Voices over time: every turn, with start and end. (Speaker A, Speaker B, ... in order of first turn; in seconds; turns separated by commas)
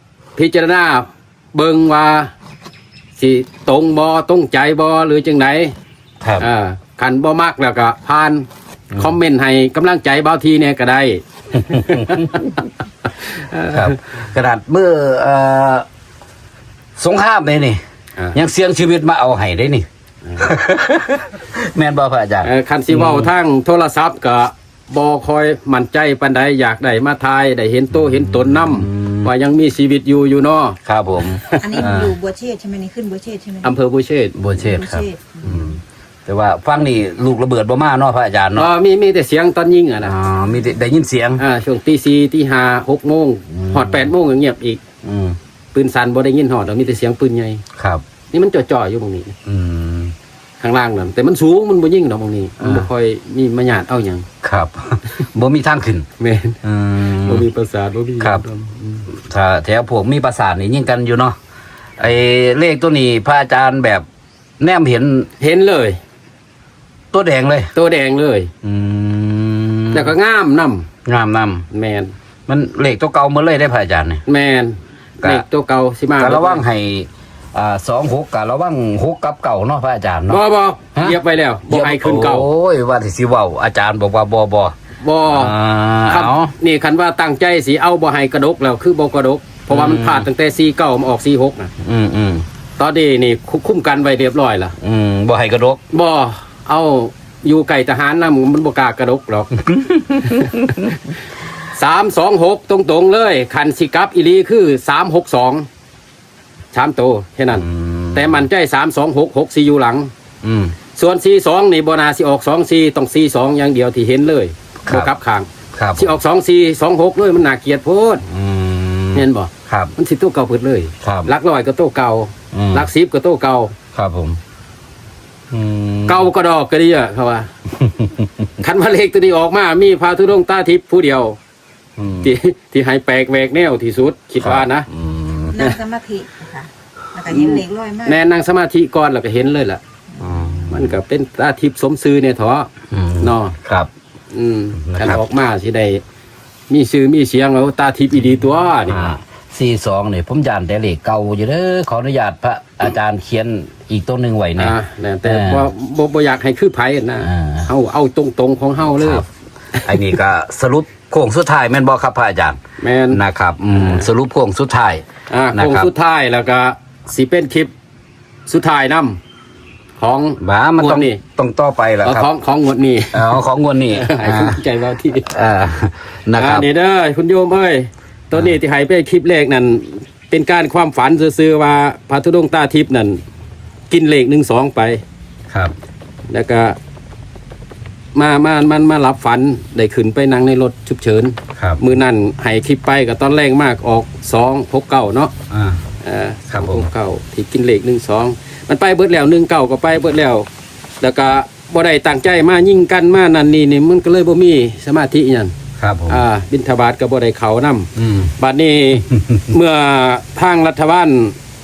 Speaker A: 0.4-2.3, Speaker A: 3.2-5.7, Speaker B: 6.2-6.5, Speaker A: 6.4-12.6, Speaker B: 11.7-12.5, Speaker A: 13.2-13.9, Speaker B: 13.7-15.9, Speaker B: 17.0-17.8, Speaker B: 18.3-19.9, Speaker B: 20.4-23.3, Speaker A: 22.4-31.8, Speaker B: 27.9-29.3, Speaker B: 30.9-32.2, Speaker C: 31.6-33.7, Speaker A: 33.6-34.3, Speaker B: 34.3-38.7, Speaker C: 34.6-35.6, Speaker A: 38.5-40.1, Speaker B: 40.0-41.4, Speaker A: 41.4-44.8, Speaker B: 43.5-44.1, Speaker B: 45.0-45.4, Speaker A: 45.7-47.6, Speaker B: 47.8-48.0, Speaker A: 48.3-49.3, Speaker B: 49.5-50.1, Speaker A: 50.6-54.3, Speaker B: 52.6-52.9, Speaker B: 54.4-56.1, Speaker A: 56.2-59.1, Speaker B: 56.6-57.5, Speaker B: 59.1-61.4, Speaker B: 62.0-64.1, Speaker B: 64.6-65.3, Speaker A: 65.4-66.0, Speaker B: 67.1-67.7, Speaker A: 67.8-68.5, Speaker B: 68.6-70.1, Speaker A: 69.9-70.9, Speaker B: 71.0-71.7, Speaker A: 71.7-72.1, Speaker B: 72.5-74.2, Speaker A: 74.3-76.6, Speaker B: 76.2-80.4, Speaker A: 80.3-82.5, Speaker B: 81.0-84.7, Speaker A: 85.0-85.5, Speaker B: 85.2-86.5, Speaker A: 86.1-91.7, Speaker B: 89.7-90.3, Speaker B: 91.8-92.5, Speaker A: 92.8-94.8, Speaker B: 94.8-95.8, Speaker A: 95.9-99.6, Speaker B: 99.6-100.9, Speaker A: 100.3-101.0, Speaker A: 101.7-105.7, Speaker A: 106.7-110.1, Speaker B: 107.5-108.5, Speaker B: 110.4-110.8, Speaker A: 111.0-118.2, Speaker B: 114.8-115.1, Speaker B: 115.7-116.1, Speaker B: 118.3-119.9, Speaker A: 119.1-123.8, Speaker B: 121.0-121.3, Speaker B: 122.5-122.9, Speaker B: 123.9-124.4, Speaker B: 125.5-126.3, Speaker A: 126.1-127.5, Speaker B: 127.8-128.3, Speaker A: 128.6-131.4, Speaker B: 132.0-132.3, Speaker A: 132.2-134.9, Speaker B: 134.4-135.6, Speaker C: 135.5-138.2, Speaker A: 137.3-139.8, Speaker B: 140.2-141.0, Speaker A: 140.7-142.7, Speaker B: 142.9-143.9, Speaker A: 143.2-143.6, Speaker A: 144.3-146.0, Speaker B: 144.8-145.2, Speaker A: 146.7-149.1, Speaker B: 148.9-155.7, Speaker A: 154.6-159.2, Speaker B: 157.2-157.7, Speaker B: 159.0-159.2, Speaker B: 159.8-162.6, Speaker A: 162.8-163.2, Speaker B: 163.1-165.9, Speaker A: 163.7-164.1, Speaker A: 165.3-167.7, Speaker A: 168.5-169.2, Speaker A: 170.0-171.2, Speaker B: 170.4-172.3, Speaker A: 172.0-173.4, Speaker B: 173.1-174.6, Speaker A: 173.9-175.3, Speaker B: 175.2-176.7, Speaker A: 176.4-183.2, Speaker A: 183.9-185.0, Speaker A: 186.3-186.8, Speaker A: 188.2-195.3, Speaker B: 191.6-191.8, Speaker B: 195.5-195.8, Speaker A: 196.0-200.5, Speaker B: 196.5-196.9, Speaker A: 201.0-205.5, Speaker B: 205.8-206.3, Speaker A: 206.1-211.4, Speaker B: 208.0-208.3, Speaker B: 209.1-209.5